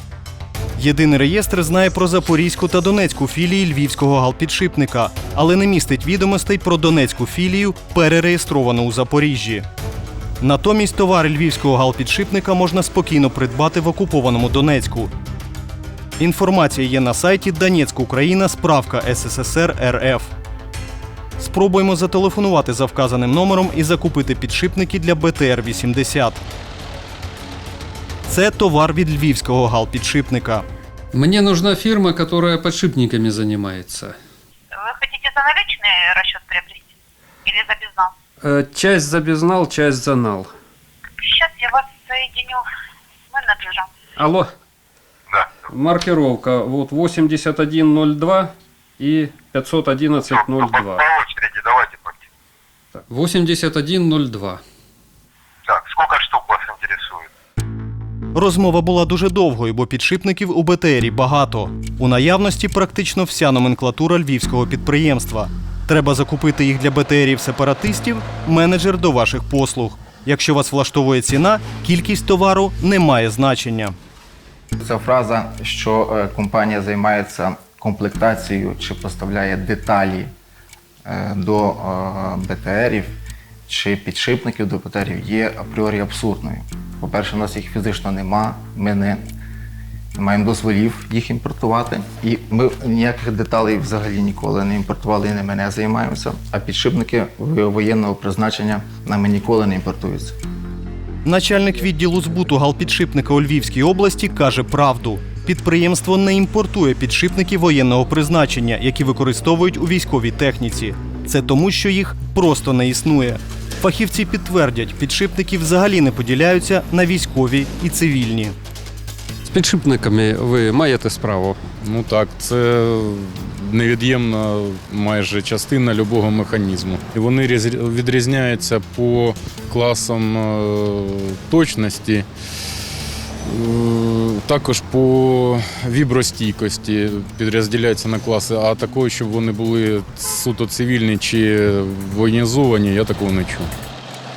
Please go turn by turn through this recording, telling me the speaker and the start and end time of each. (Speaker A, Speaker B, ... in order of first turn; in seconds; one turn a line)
Speaker A: 0.8-9.7
Speaker A: 10.4-15.1
Speaker A: 16.2-20.3
Speaker A: 21.4-26.4
Speaker A: 28.2-30.6
Speaker B: 31.1-34.1
Speaker C: 34.7-36.9
Speaker C: 37.5-38.1
Speaker B: 38.4-40.5
Speaker C: 41.2-42.6
Speaker C: 43.3-43.9
Speaker B: 44.2-44.5
Speaker B: 45.7-51.1
Speaker D: 50.7-52.1
Speaker B: 53.1-54.6
Speaker D: 55.7-57.2
Speaker A: 58.3-73.9
Speaker E: 74.8-80.3
Speaker E: 81.0-83.2
Speaker E: 83.7-89.2
Speaker E: 90.2-100.4
Speaker A: 101.2-118.5
Speaker B: 119.5-121.6
Speaker F: 121.8-132.2
Speaker F: 133.4-143.7